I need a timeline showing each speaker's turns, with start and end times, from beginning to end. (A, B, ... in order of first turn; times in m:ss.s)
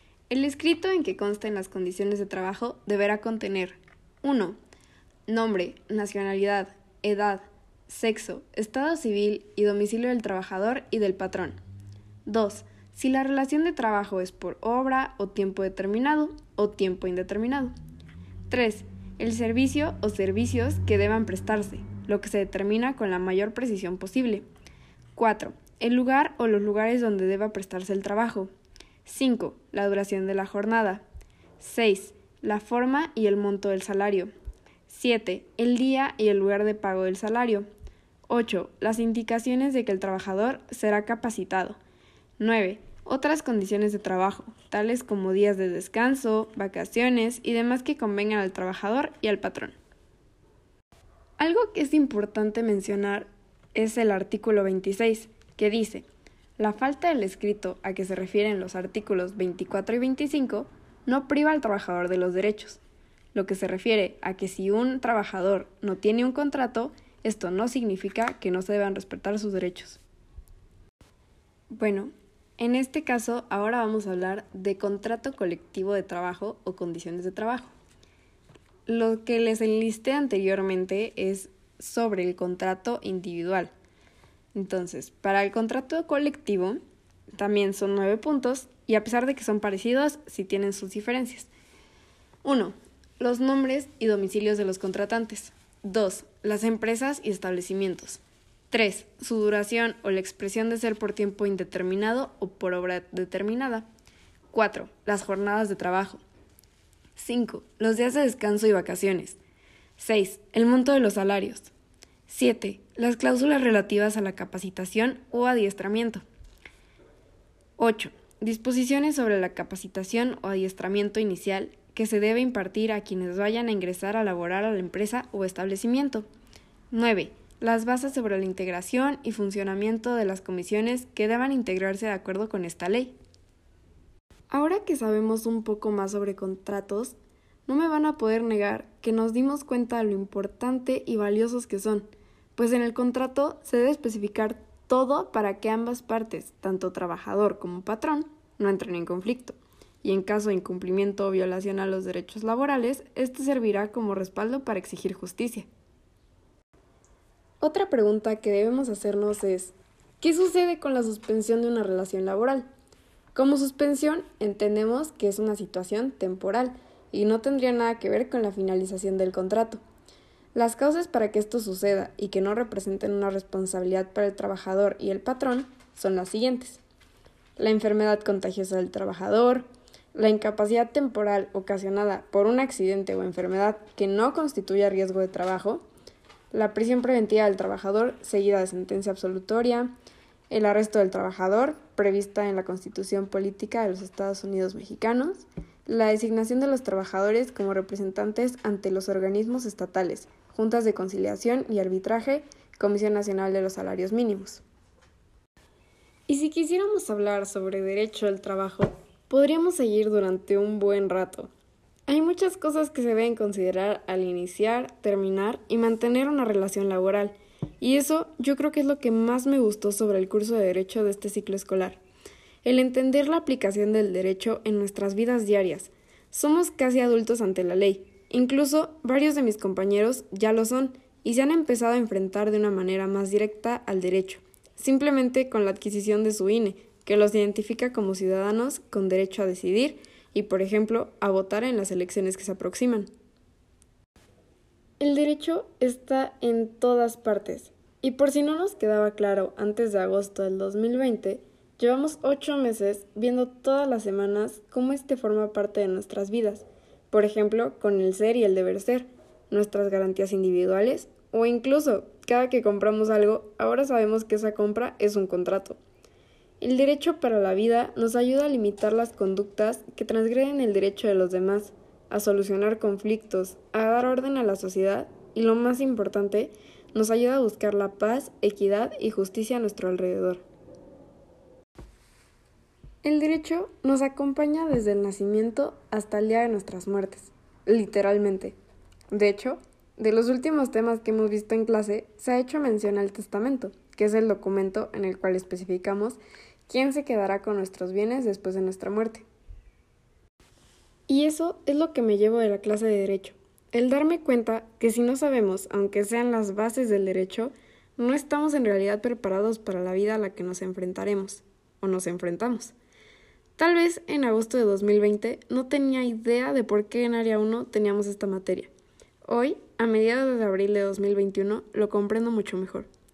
0:00.3-0:04.6 A
0:05.3-0:11.6 A
0:12.2-0:17.7 A
0:18.5-0:24.4 A
0:25.2-0:28.5 A
0:29.0-0:31.0 A
0:31.6-0:34.3 A
0:34.9-0:37.7 A
0:38.3-0:41.8 A
0:42.4-0:49.8 A
0:51.4-0:56.0 A
0:56.6-1:02.8 A
1:03.3-1:10.0 A
1:11.7-1:17.7 A
1:18.8-1:23.7 A
1:24.5-1:26.8 A
1:27.3-1:31.5 A
1:32.4-1:43.8 A
1:44.5-1:46.2 A
1:47.2-1:49.4 A
1:50.0-1:51.7 A
1:52.3-1:56.2 A
1:57.8-2:06.2 A
2:06.9-2:13.2 A
2:14.5-2:17.1 A
2:17.7-2:35.7 A
2:37.6-2:42.6 A
2:43.3-2:49.8 A
2:50.5-2:56.8 A
2:57.6-3:05.8 A
3:06.5-3:09.9 A
3:10.5-3:24.6 A
3:26.3-3:31.5 A
3:32.1-3:42.0 A
3:42.6-4:03.1 A
4:05.0-4:25.8 A
4:26.6-4:40.4 A
4:43.0-4:48.6 A
4:49.1-4:59.2 A
5:01.1-5:12.7 A
5:13.6-5:18.7 A
5:19.2-5:22.9 A